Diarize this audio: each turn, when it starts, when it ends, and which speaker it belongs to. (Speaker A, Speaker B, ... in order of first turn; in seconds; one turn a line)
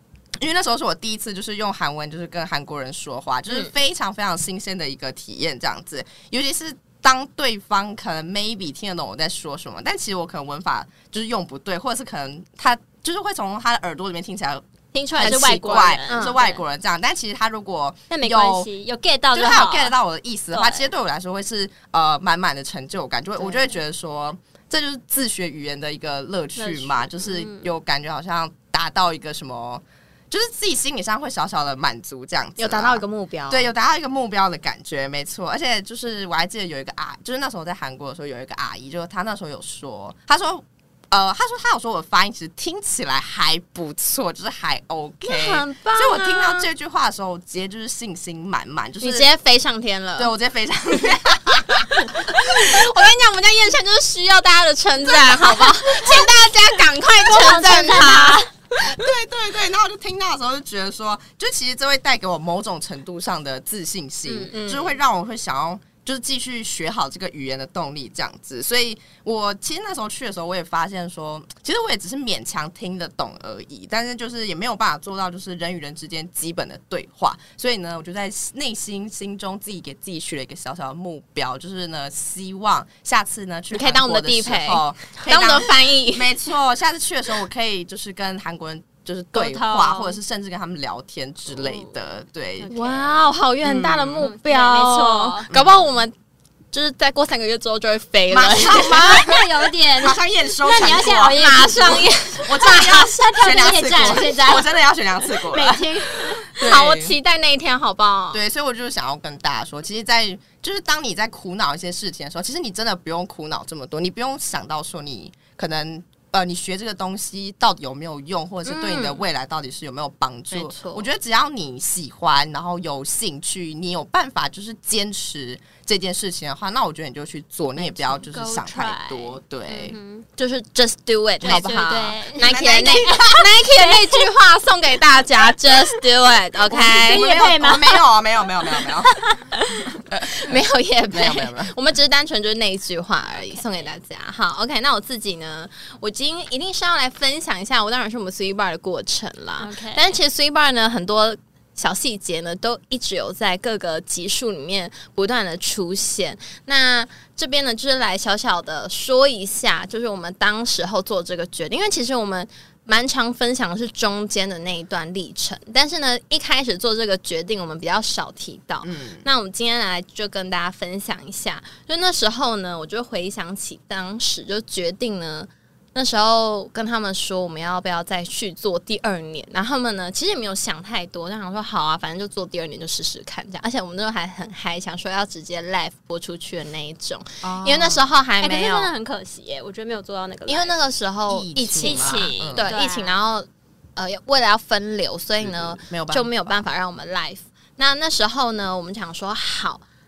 Speaker A: 0.4-18.7
Speaker B: 14.9-16.6
Speaker C: 15.2-16.4
Speaker B: 18.1-19.9
Speaker A: 19.3-49.3
Speaker B: 20.5-20.9
Speaker B: 26.6-27.7
Speaker C: 32.6-33.7
Speaker C: 45.2-46.7
Speaker C: 49.0-50.3
Speaker A: 50.2-52.8
Speaker C: 51.8-58.4
Speaker B: 56.0-56.2
Speaker B: 57.2-58.5
Speaker A: 58.8-92.7
Speaker B: 64.3-64.5
Speaker C: 64.5-64.9
Speaker C: 83.7-86.3
Speaker B: 89.3-90.2
Speaker B: 91.5-91.9
Speaker B: 92.6-93.3
Speaker C: 92.7-96.1
Speaker A: 93.6-94.2
Speaker B: 94.2-95.5
Speaker A: 95.5-95.8
Speaker C: 96.7-99.3
Speaker A: 98.3-107.1
Speaker B: 98.7-106.6
Speaker C: 101.2-104.5
Speaker C: 106.5-108.4
Speaker A: 108.3-129.9
Speaker C: 118.6-119.2
Speaker C: 120.5-121.1
Speaker C: 127.8-128.2
Speaker B: 128.0-130.2
Speaker C: 130.4-137.4
Speaker A: 131.4-131.8
Speaker B: 131.4-134.2
Speaker A: 132.3-133.5
Speaker A: 136.7-139.3
Speaker B: 136.7-138.1
Speaker B: 138.7-139.4
Speaker A: 139.9-140.6
Speaker C: 140.2-188.9
Speaker A: 141.1-141.7
Speaker B: 143.4-143.8
Speaker B: 149.6-150.2
Speaker A: 168.8-169.3
Speaker A: 187.4-188.1
Speaker B: 188.4-190.7
Speaker C: 190.5-199.8
Speaker A: 191.3-192.7
Speaker B: 191.8-193.2
Speaker A: 195.4-196.6